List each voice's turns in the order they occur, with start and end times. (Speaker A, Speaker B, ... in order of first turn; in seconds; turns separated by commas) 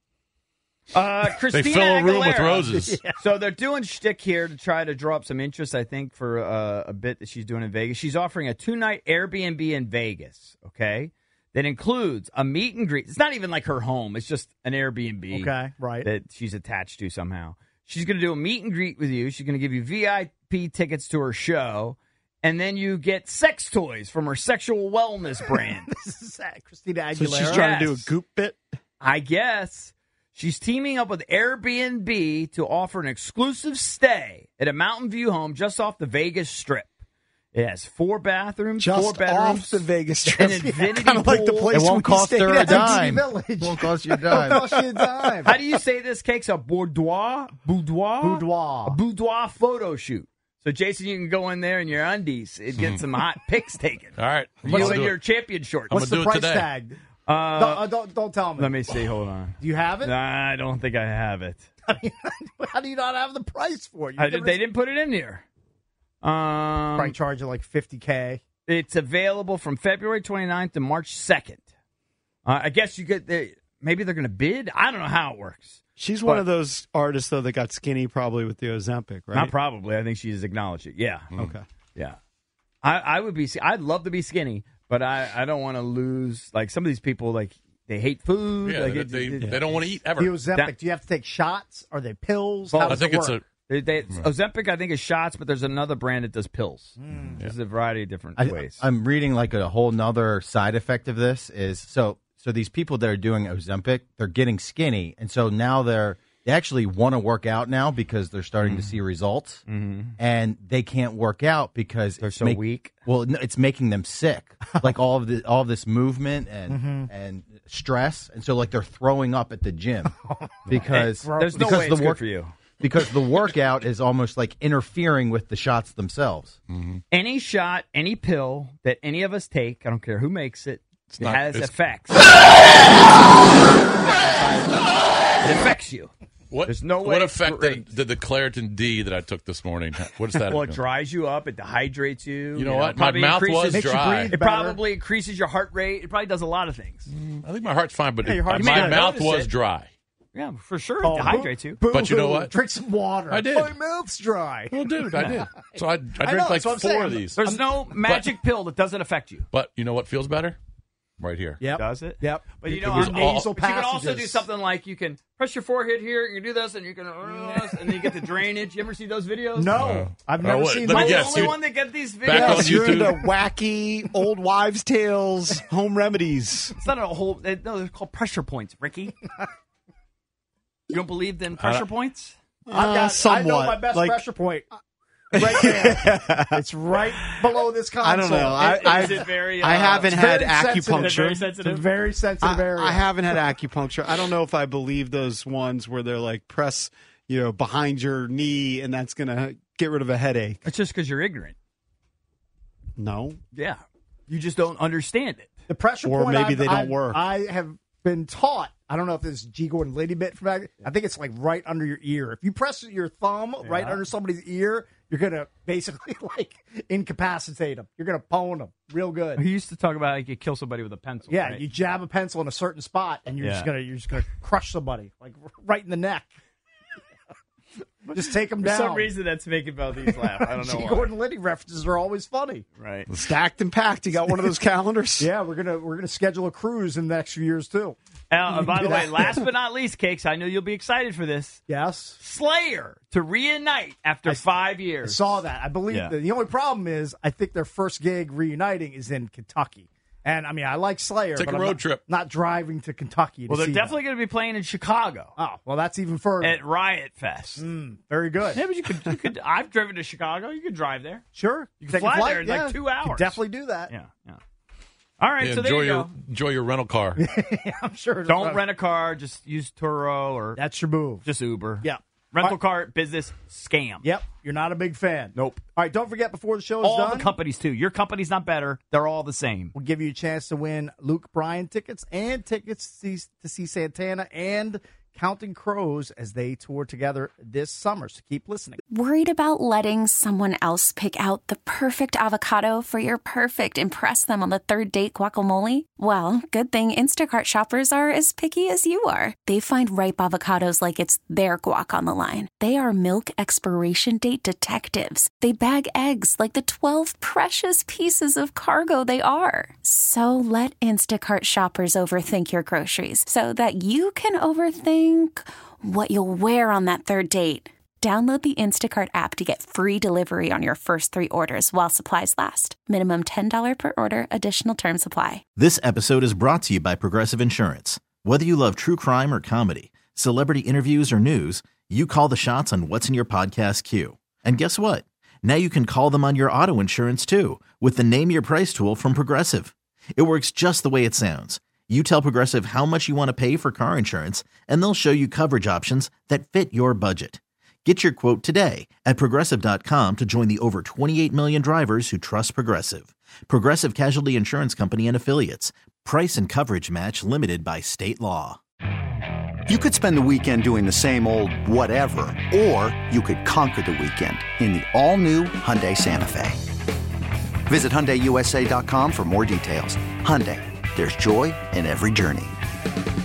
Speaker A: 0.9-2.7, Speaker B: 1.5-3.0, Speaker C: 2.7-3.2, Speaker A: 3.2-15.5, Speaker C: 15.3-16.1, Speaker A: 16.0-25.9, Speaker C: 25.5-27.8, Speaker D: 27.1-28.6, Speaker A: 27.5-28.1, Speaker A: 29.0-36.9, Speaker A: 37.5-41.7, Speaker D: 38.8-43.1, Speaker C: 40.4-41.0, Speaker E: 41.7-44.8, Speaker C: 42.5-45.6, Speaker A: 45.4-56.0, Speaker C: 48.2-49.0, Speaker B: 52.8-53.0, Speaker B: 54.2-55.2, Speaker C: 54.7-55.1, Speaker B: 55.9-56.7, Speaker C: 55.9-57.0, Speaker A: 57.2-57.9, Speaker C: 57.5-58.9, Speaker A: 58.6-61.7, Speaker C: 59.6-60.1, Speaker C: 61.9-64.6, Speaker A: 64.2-65.5, Speaker A: 66.2-67.2, Speaker C: 67.0-68.4, Speaker A: 68.7-71.7, Speaker A: 72.5-76.5, Speaker D: 76.0-79.5, Speaker A: 79.3-81.3, Speaker D: 81.4-81.6, Speaker A: 82.8-89.6, Speaker B: 88.6-90.4, Speaker C: 90.2-93.4, Speaker A: 92.7-98.8, Speaker B: 92.9-93.4, Speaker C: 97.0-97.4, Speaker E: 98.4-109.6, Speaker A: 108.6-109.0, Speaker A: 109.7-110.2, Speaker E: 110.2-120.1, Speaker A: 112.2-112.9, Speaker C: 116.7-117.1, Speaker C: 120.3-122.0, Speaker E: 120.7-122.2, Speaker A: 120.7-122.5, Speaker E: 122.8-126.6, Speaker B: 126.7-127.0, Speaker A: 127.1-132.5, Speaker B: 131.1-131.7, Speaker A: 134.0-134.8, Speaker A: 135.4-136.1, Speaker B: 136.5-140.8, Speaker A: 136.7-137.9, Speaker A: 140.4-147.1, Speaker B: 142.6-144.4, Speaker C: 143.7-144.8, Speaker B: 147.1-149.9, Speaker C: 148.2-149.2, Speaker A: 148.5-149.5, Speaker A: 150.3-151.8, Speaker C: 151.0-155.6, Speaker B: 151.8-152.5, Speaker B: 153.3-153.7, Speaker B: 154.7-158.4, Speaker C: 156.2-157.6, Speaker A: 157.4-159.5, Speaker B: 159.5-160.6, Speaker B: 161.2-161.6, Speaker C: 161.6-164.4, Speaker A: 161.7-169.8, Speaker B: 162.8-163.4, Speaker C: 167.3-168.2, Speaker C: 169.6-171.6, Speaker B: 169.8-171.6, Speaker A: 170.9-173.1, Speaker B: 172.2-173.2, Speaker C: 172.3-173.0, Speaker D: 172.4-176.7, Speaker A: 176.8-179.1, Speaker A: 180.9-182.4, Speaker B: 181.6-181.9, Speaker D: 182.7-184.2, Speaker C: 182.7-184.7, Speaker D: 185.3-186.6, Speaker C: 185.3-189.3, Speaker D: 187.2-187.5, Speaker D: 188.0-191.5, Speaker A: 188.6-190.3, Speaker C: 190.0-193.4, Speaker A: 190.9-191.9, Speaker D: 192.4-200.6, Speaker A: 200.6-201.6, Speaker D: 203.0-203.4, Speaker A: 203.5-205.5, Speaker C: 205.7-219.4, Speaker D: 206.0-207.2, Speaker A: 213.6-214.0, Speaker A: 219.4-221.6, Speaker C: 221.3-226.3, Speaker A: 223.4-223.7, Speaker C: 228.1-229.1, Speaker A: 228.1-231.1, Speaker C: 230.1-232.7, Speaker A: 232.8-233.1, Speaker D: 233.1-235.3, Speaker C: 235.2-239.5, Speaker A: 238.3-241.6, Speaker C: 241.7-242.2, Speaker A: 242.2-246.1, Speaker C: 245.0-254.0, Speaker B: 251.4-252.0, Speaker A: 253.5-255.3, Speaker C: 255.4-256.6, Speaker A: 256.4-257.7, Speaker C: 257.6-258.6, Speaker A: 258.5-261.2, Speaker C: 261.4-263.9, Speaker A: 261.8-264.4, Speaker A: 265.2-266.1, Speaker B: 265.4-267.2, Speaker C: 267.2-268.6, Speaker A: 268.3-270.6, Speaker C: 270.6-271.3, Speaker A: 271.2-274.1, Speaker C: 271.8-272.6, Speaker C: 274.0-277.3, Speaker A: 275.4-275.6, Speaker A: 276.8-279.8, Speaker C: 279.8-288.8, Speaker F: 288.9-325.4, Speaker G: 325.6-358.6, Speaker H: 359.7-366.6, Speaker H: 367.6-372.6